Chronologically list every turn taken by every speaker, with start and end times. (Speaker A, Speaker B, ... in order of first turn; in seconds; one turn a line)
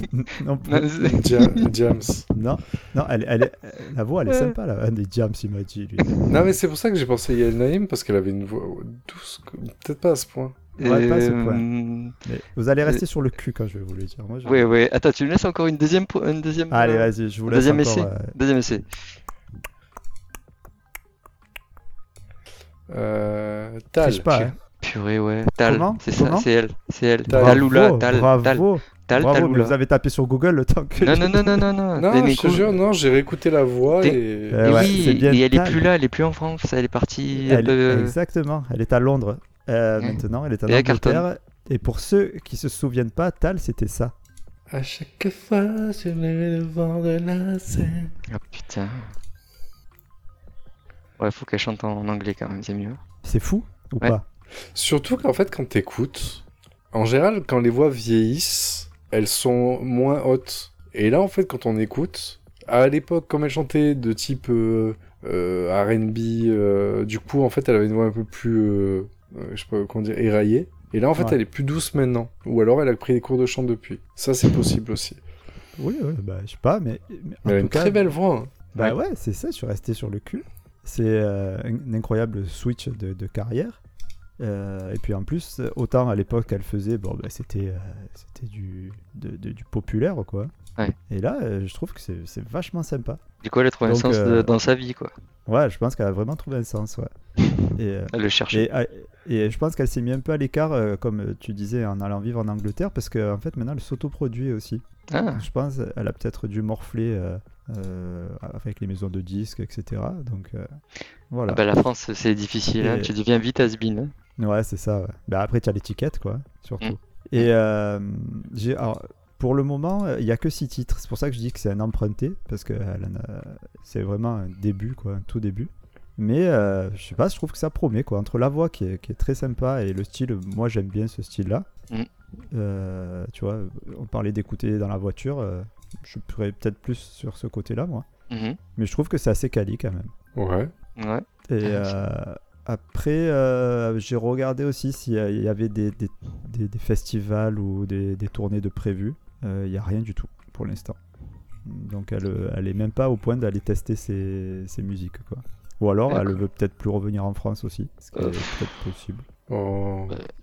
Speaker A: 0.1-1.1
Speaker B: 0.7-1.4
Speaker C: 1.0-2.3
Speaker A: 2.3-6.0
Speaker C: 6.3-10.7
Speaker B: 10.8-12.1
Speaker A: 10.8-11.7
Speaker A: 12.2-14.7
Speaker B: 14.4-18.8
Speaker A: 16.7-18.3
Speaker C: 22.9-24.4
Speaker A: 24.0-24.5
Speaker B: 24.4-29.7
Speaker A: 25.6-26.5
Speaker C: 27.3-27.6
Speaker A: 27.3-31.6
Speaker B: 31.0-32.8
Speaker C: 32.0-34.9
Speaker B: 34.0-38.1
Speaker A: 34.5-35.9
Speaker A: 37.3-44.1
Speaker B: 40.0-41.2
Speaker C: 44.7-48.1
Speaker B: 48.3-49.1
Speaker B: 51.2-53.0
Speaker A: 53.2-54.2
Speaker C: 54.7-75.2
Speaker A: 75.8-78.0
Speaker C: 77.5-79.0
Speaker A: 78.8-83.8
Speaker A: 84.4-90.5
Speaker A: 91.1-93.2
Speaker B: 93.4-95.1
Speaker A: 93.8-94.5
Speaker A: 95.5-97.1
Speaker B: 97.6-98.7
Speaker A: 97.8-110.7
Speaker B: 105.1-105.4
Speaker A: 111.3-111.6
Speaker B: 111.5-114.1
Speaker A: 112.8-113.1
Speaker A: 114.4-131.7
Speaker B: 116.8-117.5
Speaker A: 132.5-138.1
Speaker B: 138.3-138.6
Speaker A: 138.8-140.1
Speaker C: 140.3-140.7
Speaker B: 141.0-141.9
Speaker A: 141.5-151.0
Speaker A: 151.6-159.3
Speaker B: 156.1-156.4
Speaker B: 158.1-158.4
Speaker C: 159.5-160.1